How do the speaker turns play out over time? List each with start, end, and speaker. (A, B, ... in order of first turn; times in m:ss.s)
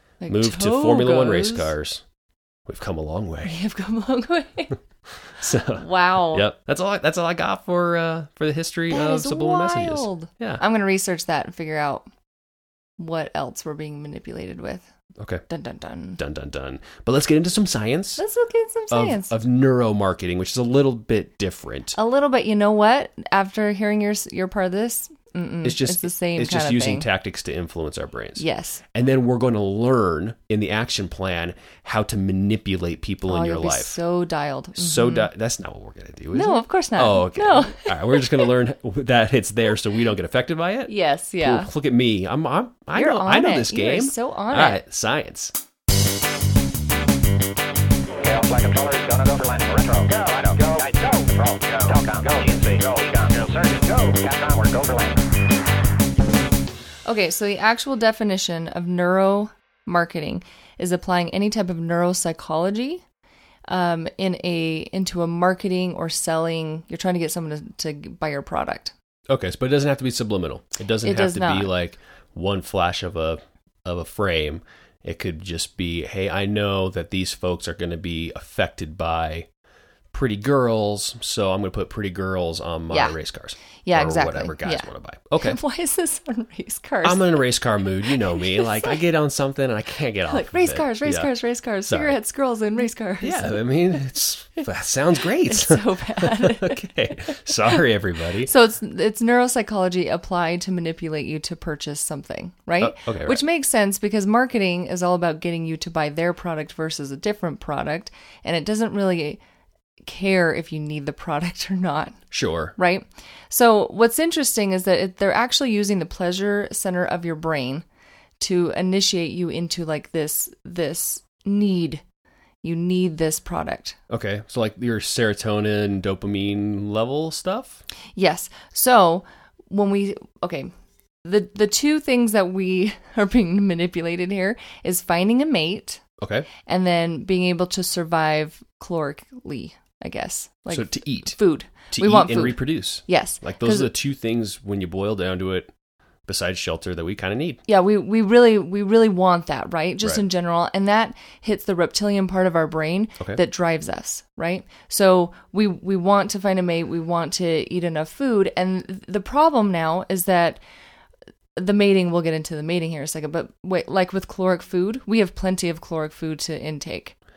0:00.2-0:01.7 A
0:00.3-0:02.0 B
0:02.6-0:03.6 B
0:03.4-0:04.8 A
0:05.4-0:10.6 B
0:05.7-0:06.4 A
0:08.9-0:12.1 A
0:13.0-0:14.8 A
0:15.2-0:15.4 B
0:15.5-0:16.2 A
0:16.2-0:18.2 B
0:18.2-0:19.3 A
0:18.9-0:22.0 B
0:22.0-0:27.1 A
0:25.6-0:34.0 B
0:28.4-0:28.8 A
0:33.2-0:35.3 A
0:34.8-0:45.5 B
0:36.3-0:38.5 A
0:40.9-0:41.7 A
0:42.9-0:44.8 A
0:48.2-0:55.2 C
0:57.0-1:03.0 A
1:03.7-1:08.9 A
1:09.3-1:19.5 B
1:11.0-1:11.7 A
1:20.1-1:25.6 B
1:22.9-1:23.2 A
1:23.8-1:24.9 A
1:25.4-1:27.3 A
1:27.0-1:31.3 B
1:28.1-1:29.0 A
1:30.3-1:33.6 A
1:31.9-1:32.2 B
1:33.2-1:38.5 B
1:35.4-1:36.8 A
1:38.4-1:49.4 A
1:42.8-1:43.4 B
1:50.0-1:52.2 A
1:52.3-1:52.7 B
1:52.8-1:57.8 A
1:58.4-2:02.0 A
2:02.6-2:04.0 A
2:04.1-2:07.8 B
2:08.1-2:10.7 A
2:11.2-2:16.0 A
2:16.2-2:16.5 B
2:16.6-2:23.9 A
2:20.7-2:21.4 B
2:21.9-2:25.7 B
2:26.3-2:27.6 B
2:27.7-2:40.6 A
2:41.6-2:47.1 A